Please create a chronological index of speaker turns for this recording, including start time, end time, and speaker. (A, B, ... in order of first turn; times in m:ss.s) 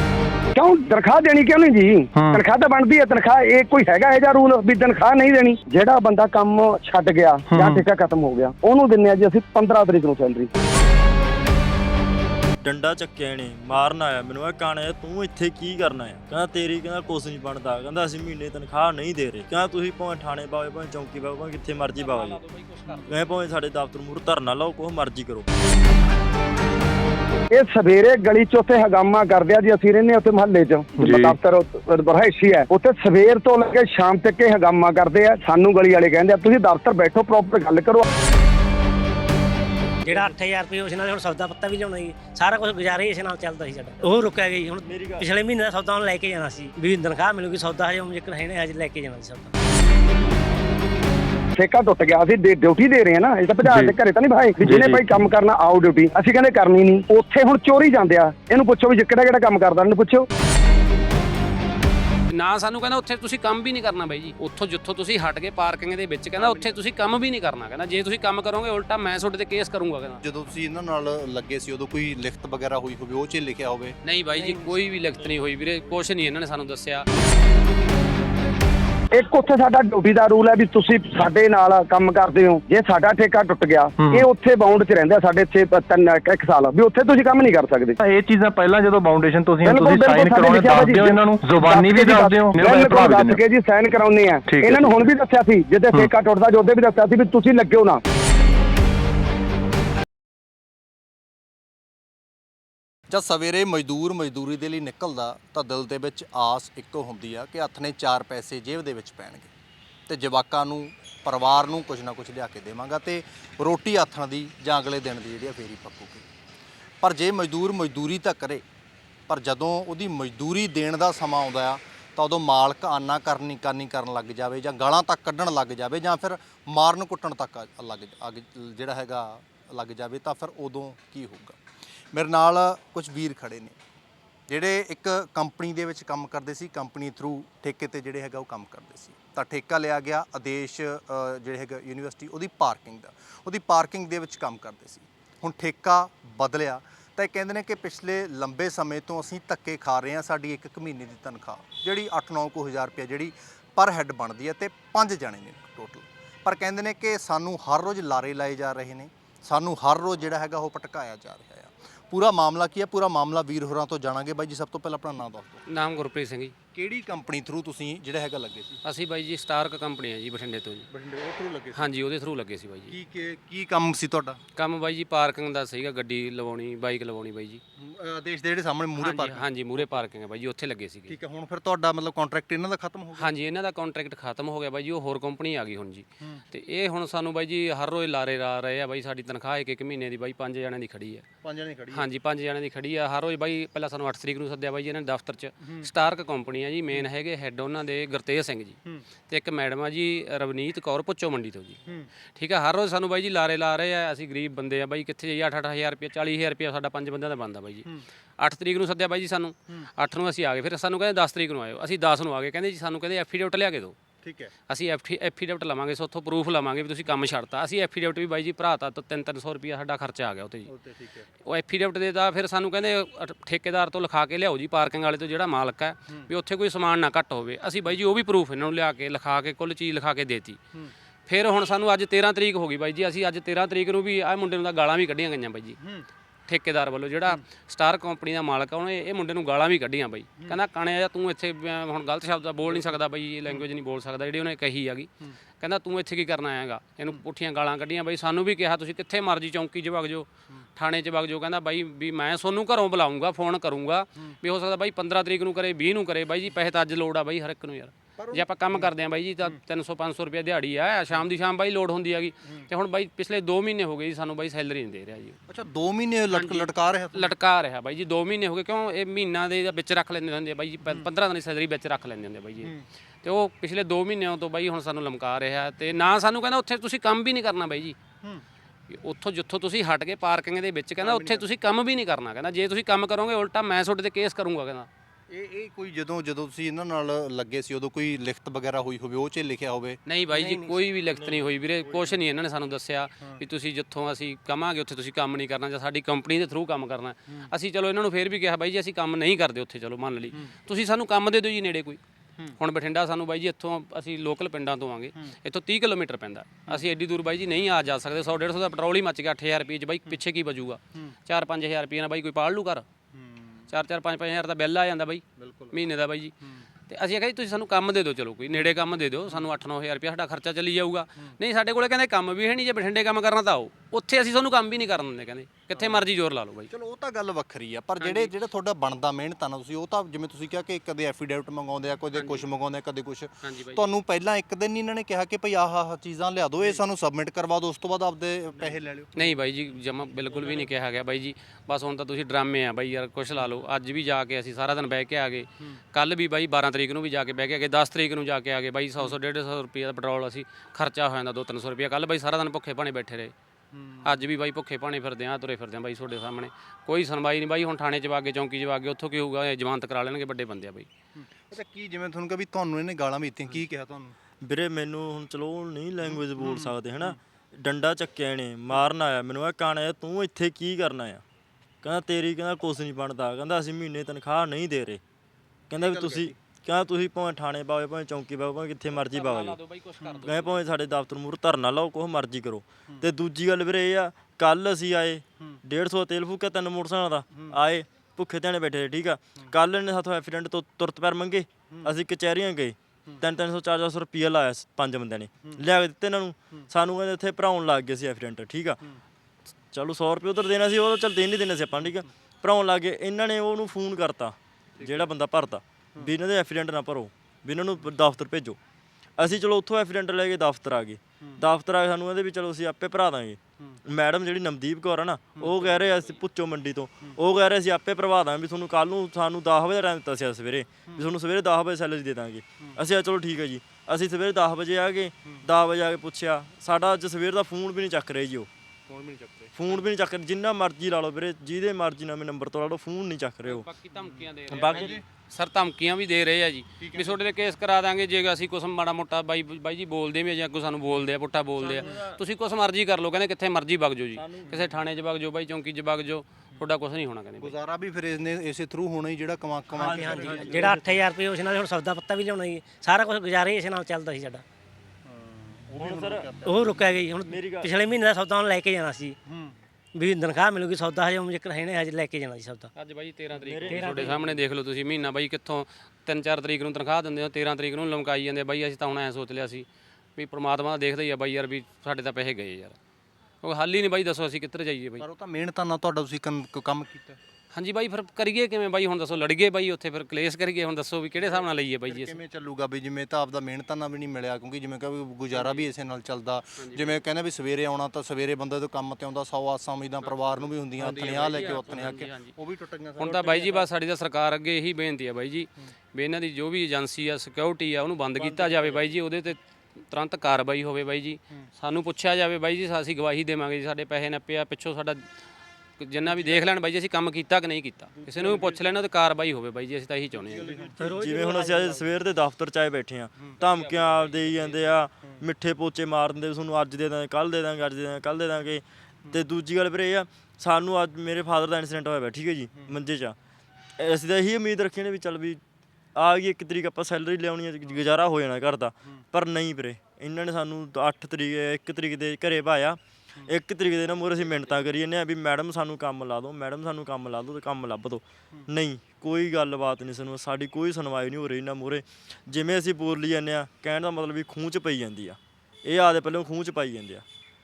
0:00.5-0:10.5 A
0:02.1-0:02.4 B
0:07.5-0:07.8 B
0:12.6-0:22.4 C
0:22.0-0:23.3 D
0:23.0-0:25.5 C
0:27.5-0:38.0 A
0:31.0-0:31.4 B
0:40.0-0:49.5 E
0:44.8-0:45.3 C
0:51.6-1:00.3 A
0:53.6-0:53.9 B
0:54.6-0:55.0 B
1:02.3-1:10.2 D
1:06.4-1:06.8 F
1:10.2-1:14.0 F
1:14.0-1:17.0 D
1:19.1-1:28.0 A
1:24.0-1:24.2 B
1:28.0-1:33.4 B
1:29.6-1:38.0 A
1:34.5-1:35.0 B
1:43.1-1:49.5 F
1:50.1-1:56.2 F
1:57.0-1:58.6 F
1:59.3-2:11.6 F
2:12.1-2:13.8 F
2:14.5-2:45.6 F
2:45.7-2:46.5 D
2:46.7-2:48.8 F
2:48.8-2:50.9 D
2:50.9-2:51.9 F
2:51.7-2:52.9 D
2:52.9-2:54.4 F
2:54.6-2:57.6 D
2:57.8-3:00.0 F
2:59.0-3:01.2 D
3:01.1-3:03.3 F
3:03.2-3:11.2 D
3:11.4-3:12.1 F
3:11.9-3:21.8 D
3:15.6-3:15.9 F
3:22.3-3:27.9 D
3:28.4-3:34.0 D
3:34.2-3:34.5 F
3:34.7-3:40.7 D
3:40.6-3:41.3 F
3:41.4-3:50.6 D
3:51.3-3:55.8 D
3:55.8-3:56.0 F
3:56.5-4:25.4 D
4:18.2-4:18.9 F
4:25.5-4:27.3 F
4:26.3-4:38.0 D
4:38.9-4:44.9 D
4:41.0-4:41.4 F
4:45.3-4:50.6 F
4:50.0-5:02.0 D
4:51.2-4:52.2 C
5:02.6-5:12.8 D
5:13.1-5:13.7 F
5:13.7-5:16.3 D
5:15.4-5:15.8 F
5:16.9-5:26.7 D
5:25.7-5:26.1 F
5:26.7-5:39.3 F
5:28.0-5:28.3 D
5:32.1-5:32.4 D
5:33.4-5:33.8 D
5:39.1-5:53.3 D
5:40.4-5:40.6 F
5:53.7-5:54.2 F
5:54.0-6:00.9 D
6:01.1-6:04.2 F
6:04.4-6:11.2 C
6:06.3-6:07.2 F
6:11.8-6:15.0 C
6:15.7-6:19.6 C
6:15.7-6:16.4 F
6:18.9-6:20.5 D
6:20.0-6:20.3 F
6:20.1-6:38.8 C
6:27.3-6:27.6 F
6:39.7-6:48.6 C
6:49.2-7:08.5 C
6:55.4-6:55.8 F
7:08.9-7:09.5 F
7:09.6-7:13.6 C
7:13.4-7:27.5 D
7:13.9-7:15.0 F
7:14.5-7:14.9 C
7:16.8-7:17.2 F
7:21.6-7:22.2 F
7:24.2-7:24.8 F
7:27.4-7:30.9 F
7:29.8-7:31.0 C
7:29.8-7:34.4 E
7:35.0-7:36.9 F
7:35.8-7:36.3 C
7:36.4-7:39.2 E
7:37.2-7:37.7 C
7:39.3-7:39.6 F
7:39.9-7:42.7 E
7:42.7-7:52.8 D
7:43.4-7:44.2 C
7:43.6-7:44.2 E
7:53.4-7:55.0 D
7:55.0-7:57.2 F
7:57.5-8:02.2 D
8:01.2-8:13.7 F
8:05.3-8:05.6 D
8:06.6-8:07.0 D
8:10.1-8:12.3 D
8:13.0-8:25.1 D
8:18.2-8:18.8 F
8:25.8-8:30.7 D
8:26.1-8:26.4 F
8:27.9-8:28.6 F
8:30.1-8:31.0 F
8:30.8-8:31.9 E
8:30.8-8:43.2 C
8:33.4-8:34.8 D
8:43.8-8:45.4 C
8:45.9-9:07.0 C